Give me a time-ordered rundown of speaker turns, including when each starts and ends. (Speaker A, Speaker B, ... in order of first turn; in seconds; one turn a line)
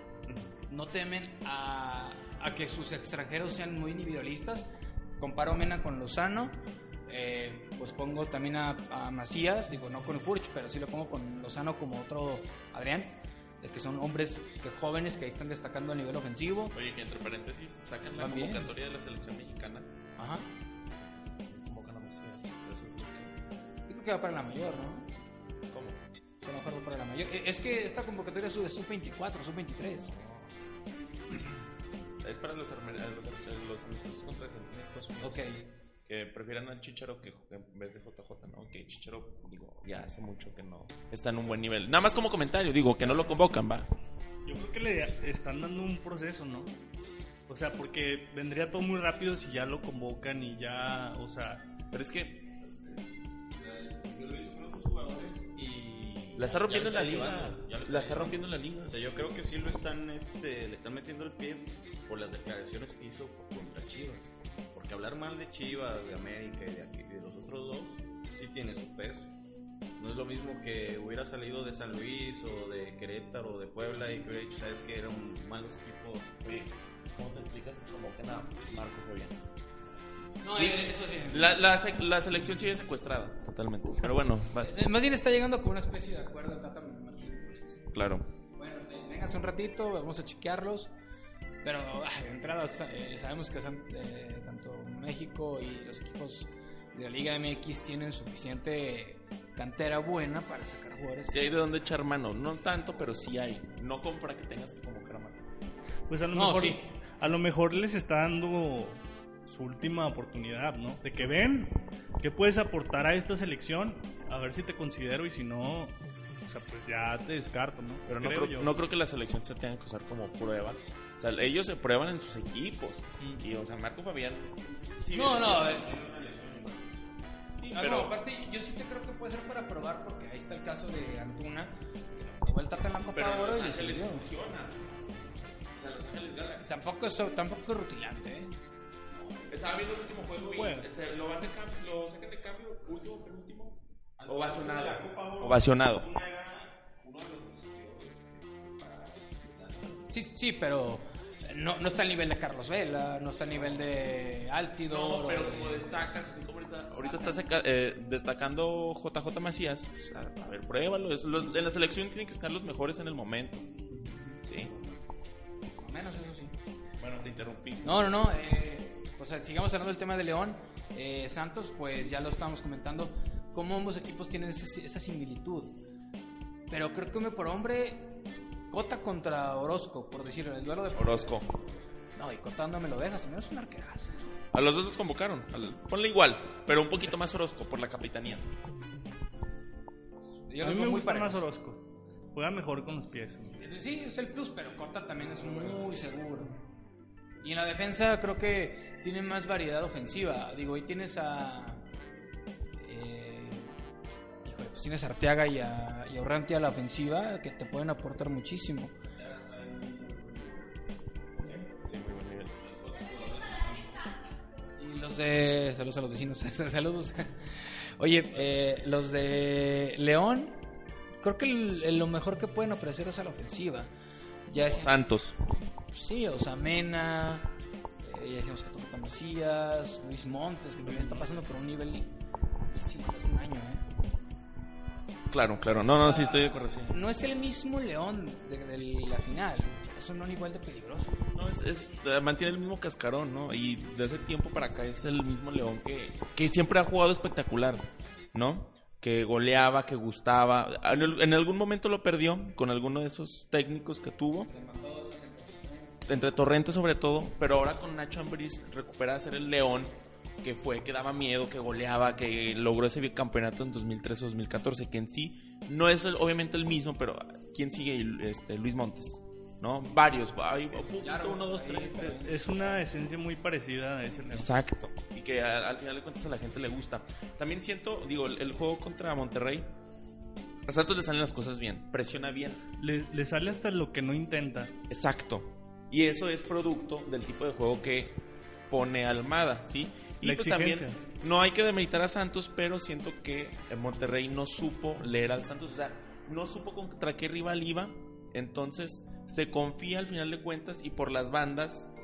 Speaker A: 0.2-0.5
Speaker B: 0.7-4.7
Speaker B: 5.2-16.7
Speaker C: 16.7-19.9
Speaker B: 18.2-18.7
Speaker B: 20.2-20.5
Speaker C: 21.2-23.3
Speaker B: 23.9-25.1
Speaker C: 25.7-26.0
Speaker B: 26.4-30.1
Speaker C: 29.9-30.5
Speaker C: 32.2-35.5
Speaker B: 35.2-35.6
Speaker C: 36.0-43.9
Speaker D: 44.4-46.7
Speaker D: 47.5-51.6
Speaker C: 51.9-52.5
Speaker A: 52.6-69.3
Speaker C: 56.4-58.9
Speaker A: 70.0-76.3
Speaker C: 76.4-79.4
Speaker B: 80.4-81.6
Speaker C: 80.4-84.8
Speaker B: 84.6-87.9
Speaker C: 87.9-88.3
Speaker B: 88.6-90.9
Speaker B: 91.6-101.5
Speaker C: 101.3-105.4
Speaker D: 106.1-118.8
Speaker B: 106.3-106.8
Speaker C: 118.1-126.8
Speaker D: 123.2-123.5
Speaker B: 125.1-125.9
Speaker A: 125.9-127.0
Speaker C: 127.5-128.1
Speaker B: 127.7-134.3
Speaker C: 133.1-134.8
Speaker C: 135.7-136.7
Speaker B: 136.6-138.6
Speaker C: 139.5-146.1
Speaker D: 140.5-140.9
Speaker A: 144.2-150.0
Speaker B: 150.1-155.9
Speaker C: 154.9-163.7
Speaker B: 157.0-157.4
Speaker A: 163.9-165.0
Speaker C: 164.4-164.7
Speaker B: 165.8-166.5
Speaker C: 167.0-168.2
Speaker B: 167.8-175.8
Speaker B: 176.7-178.2
Speaker B: 178.7-181.4
Speaker C: 180.9-181.5
Speaker B: 182.1-184.2
Speaker C: 184.5-188.5
Speaker B: 190.5-191.4
Speaker D: 190.6-193.5
Speaker B: 193.6-196.6
Speaker A: 195.6-195.9
Speaker B: 197.4-201.8
Speaker B: 202.8-203.7
Speaker B: 204.4-208.9
Speaker A: 209.2-210.8
Speaker A: 211.4-211.7
Speaker C: 211.8-212.5
Speaker A: 212.6-214.0
Speaker B: 214.8-217.3
Speaker B: 218.0-220.6
Speaker B: 221.2-223.9
Speaker B: 224.5-224.9
Speaker C: 224.6-225.3
Speaker B: 225.9-227.5
Speaker B: 228.0-232.1
Speaker D: 230.9-231.4
Speaker B: 232.7-233.8
Speaker C: 235.3-236.9
Speaker B: 235.9-241.2
Speaker C: 241.3-254.5
Speaker B: 254.5-255.9
Speaker C: 256.1-272.2
Speaker B: 270.6-272.8
Speaker D: 272.0-274.5
Speaker C: 274.3-279.6
Speaker C: 280.7-282.6
Speaker D: 282.8-284.7
Speaker C: 284.9-288.2
Speaker C: 288.7-301.9
Speaker D: 290.2-291.0